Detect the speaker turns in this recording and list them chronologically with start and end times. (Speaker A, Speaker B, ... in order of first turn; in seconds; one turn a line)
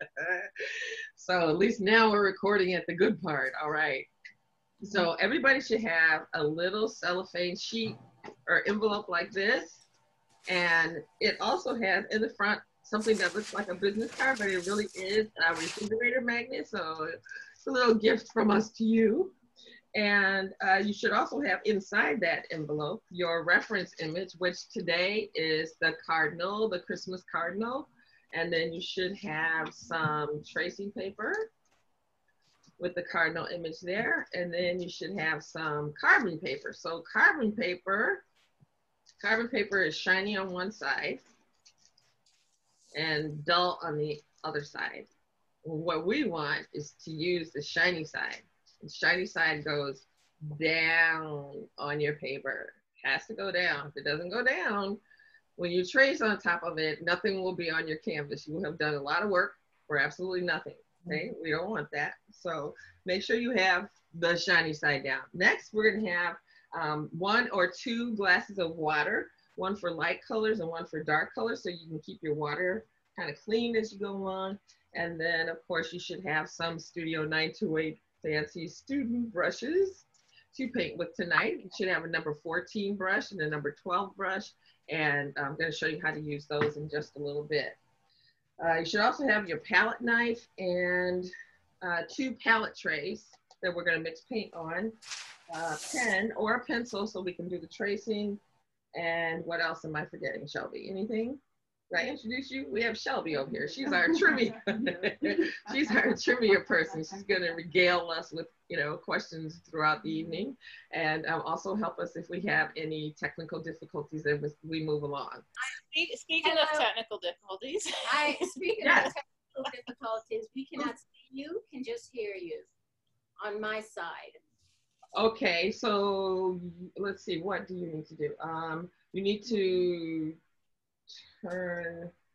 Speaker A: 0.2-0.5
Speaker A: 1.2-4.1
Speaker A: 4.8-9.8
Speaker A: 10.5-19.3
Speaker A: 19.9-31.5
Speaker A: 32.8-38.2
Speaker A: 39.2-41.2
Speaker A: 43.0-45.1
Speaker A: 45.6-55.0
Speaker A: 55.6-87.8
Speaker A: 88.6-91.3
Speaker A: 91.8-95.0
Speaker A: 95.5-98.4
Speaker A: 98.9-101.4
Speaker A: 101.9-115.4
Speaker B: 115.6-118.5
Speaker C: 116.4-116.9
Speaker C: 118.1-122.7
Speaker A: 118.8-119.1
Speaker C: 123.5-124.3
Speaker A: 125.2-130.4
Speaker A: 131.1-132.1